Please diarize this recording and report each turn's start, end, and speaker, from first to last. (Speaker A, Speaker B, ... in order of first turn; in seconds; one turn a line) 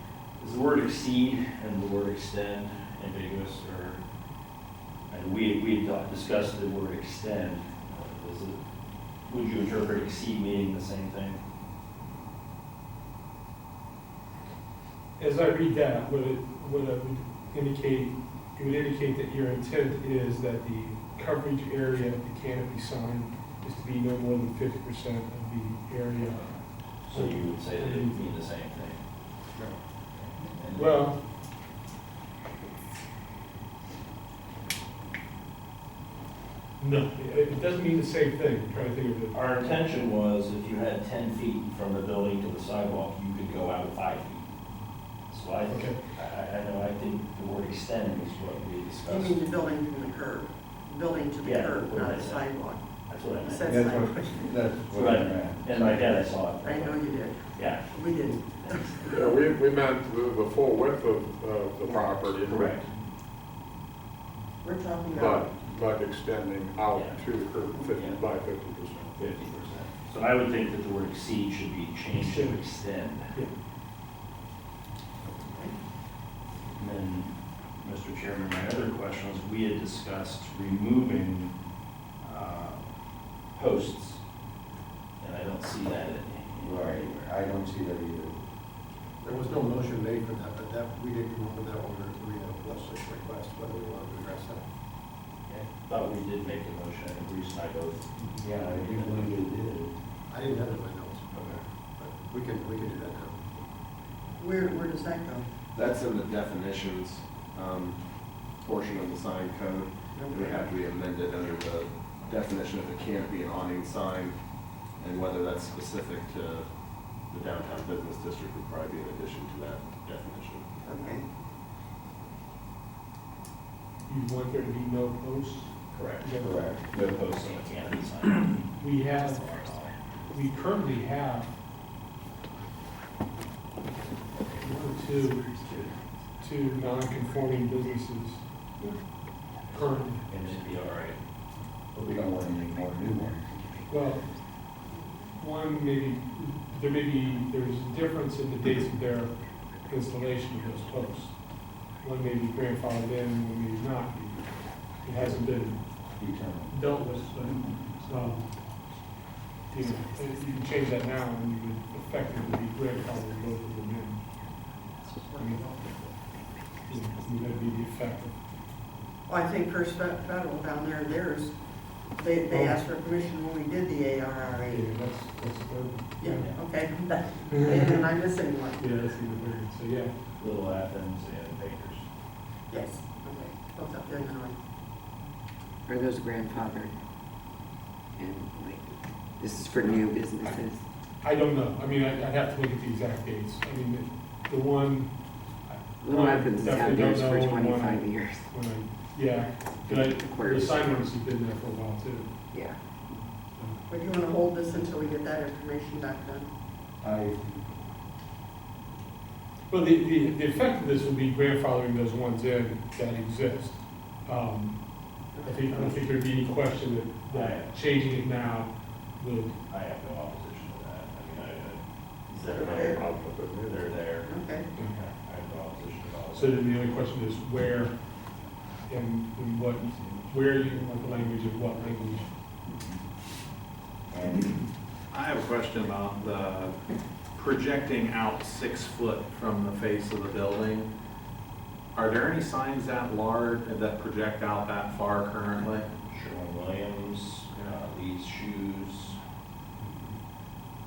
Speaker A: 0.4-4.0
Speaker A: 5.1-8.6
Speaker A: 9.2-11.4
Speaker B: 15.2-26.4
Speaker B: 27.0-28.4
Speaker A: 27.0-29.0
Speaker A: 30.1-31.1
Speaker B: 30.7-31.2
Speaker B: 36.8-39.3
Speaker A: 39.3-44.5
Speaker A: 45.3-49.4
Speaker B: 45.7-46.0
Speaker C: 49.1-52.8
Speaker A: 51.4-53.8
Speaker C: 53.4-54.4
Speaker D: 53.6-56.0
Speaker A: 54.9-59.4
Speaker C: 56.6-59.1
Speaker E: 59.0-62.8
Speaker A: 62.5-62.9
Speaker C: 64.6-65.4
Speaker E: 65.1-69.4
Speaker A: 66.9-67.2
Speaker A: 67.9-68.2
Speaker A: 69.2-73.3
Speaker B: 72.1-72.6
Speaker A: 76.8-81.5
Speaker A: 82.2-82.9
Speaker A: 83.5-84.2
Speaker A: 85.2-87.3
Speaker D: 86.6-88.4
Speaker F: 89.2-94.7
Speaker A: 95.8-99.9
Speaker D: 98.4-99.9
Speaker F: 100.3-103.5
Speaker A: 101.3-101.6
Speaker C: 104.4-105.5
Speaker G: 105.7-114.3
Speaker C: 110.1-110.9
Speaker G: 115.0-116.6
Speaker G: 117.2-120.6
Speaker C: 120.3-121.2
Speaker B: 124.0-126.6
Speaker A: 125.9-129.9
Speaker D: 126.4-126.8
Speaker B: 128.8-129.5
Speaker B: 130.3-131.5
Speaker B: 134.6-135.6
Speaker B: 136.4-138.4
Speaker B: 139.7-140.3
Speaker A: 140.3-141.2
Speaker D: 141.9-143.5
Speaker B: 143.9-144.3
Speaker B: 145.3-151.3
Speaker B: 152.0-154.5
Speaker B: 155.0-155.8
Speaker D: 156.1-156.8
Speaker B: 156.7-158.5
Speaker D: 157.4-157.7
Speaker B: 159.7-164.2
Speaker C: 165.3-165.8
Speaker B: 165.3-165.7
Speaker B: 166.9-168.3
Speaker C: 169.3-171.6
Speaker C: 172.2-174.8
Speaker B: 172.5-172.9
Speaker B: 174.7-176.6
Speaker C: 176.2-178.8
Speaker B: 177.5-178.0
Speaker B: 178.8-180.2
Speaker A: 180.4-182.1
Speaker C: 182.7-184.6
Speaker H: 185.9-186.9
Speaker H: 188.2-190.8
Speaker B: 191.2-195.1
Speaker B: 195.7-202.3
Speaker H: 196.0-198.4
Speaker H: 199.8-200.9
Speaker H: 202.5-202.8
Speaker B: 203.5-203.8
Speaker C: 203.9-206.5
Speaker D: 207.0-207.6
Speaker B: 209.7-219.6
Speaker C: 215.3-216.0
Speaker A: 217.3-217.7
Speaker A: 219.7-223.1
Speaker C: 222.5-223.0
Speaker E: 222.5-224.2
Speaker A: 223.7-226.8
Speaker C: 224.2-224.7
Speaker B: 226.3-228.0
Speaker B: 228.9-232.3
Speaker D: 234.1-234.5
Speaker I: 235.1-236.8
Speaker I: 237.3-240.9
Speaker I: 241.9-245.9
Speaker A: 246.1-249.2